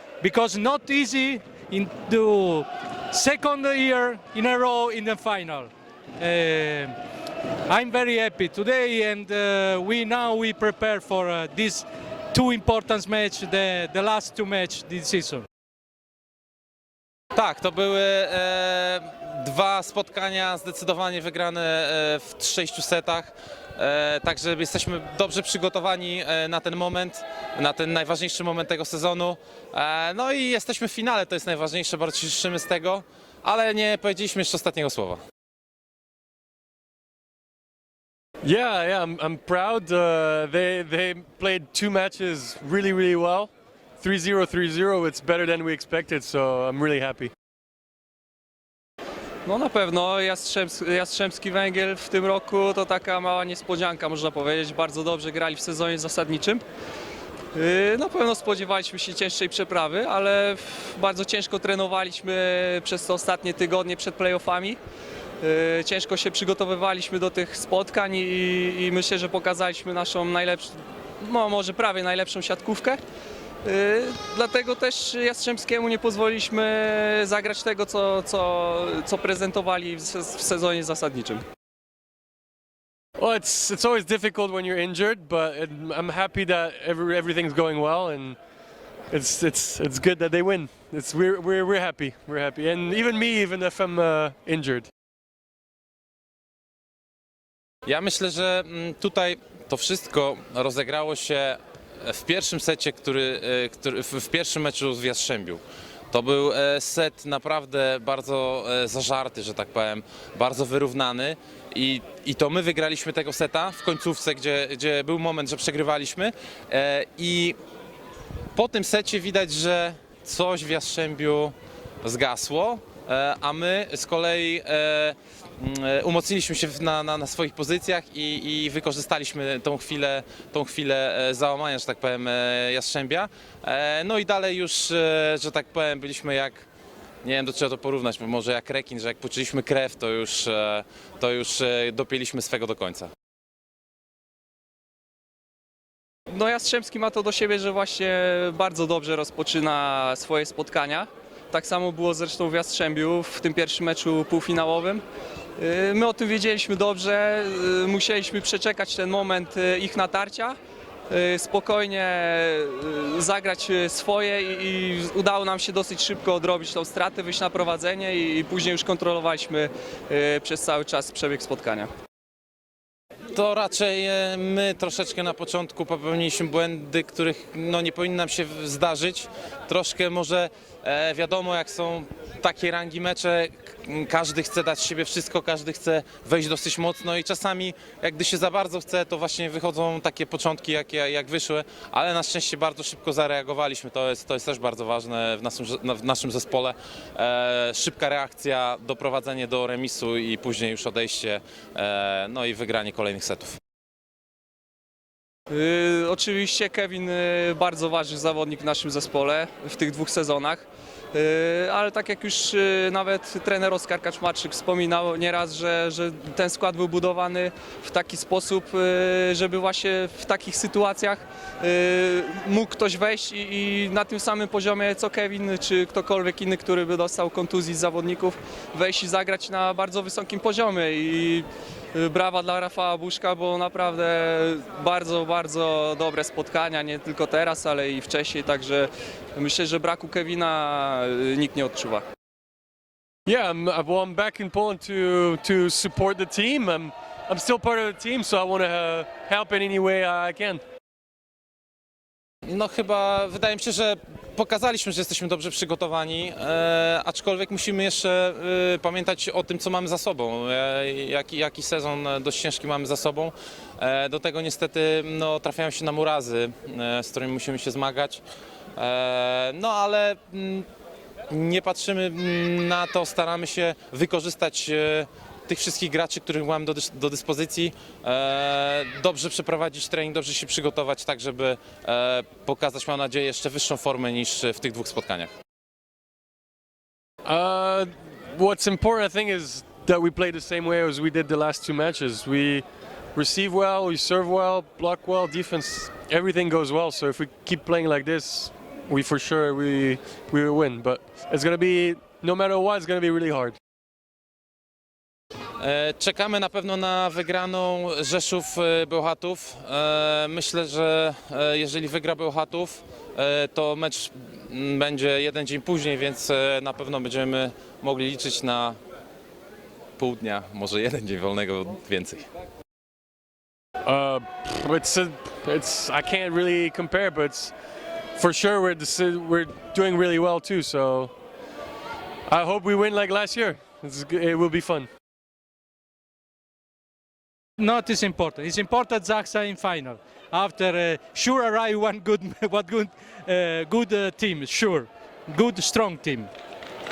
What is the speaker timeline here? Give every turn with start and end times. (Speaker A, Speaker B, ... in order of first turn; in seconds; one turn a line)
Speaker A: 0.2-6.9
Speaker A: 7.7-15.4
Speaker B: 17.3-35.2
Speaker C: 38.4-47.3
Speaker D: 49.5-56.6
Speaker D: 57.5-64.8
Speaker D: 65.4-73.0
Speaker D: 73.6-81.4
Speaker C: 83.2-88.4
Speaker C: 89.1-94.9
Speaker B: 97.8-117.6
Speaker B: 118.5-136.7
Speaker B: 137.2-143.1
Speaker D: 146.3-155.0
Speaker D: 155.6-160.6
Speaker D: 161.1-171.9
Speaker B: 173.3-203.6
Speaker D: 205.5-242.0
Speaker C: 243.3-250.6
Speaker B: 252.4-268.2
Speaker B: 268.8-270.6
Speaker B: 271.3-285.3
Speaker C: 287.2-303.6
Speaker B: 305.6-318.8
Speaker B: 320.0-322.2
Speaker C: 323.8-327.5
Speaker C: 328.1-331.1
Speaker C: 332.3-334.9
Speaker A: 337.6-346.3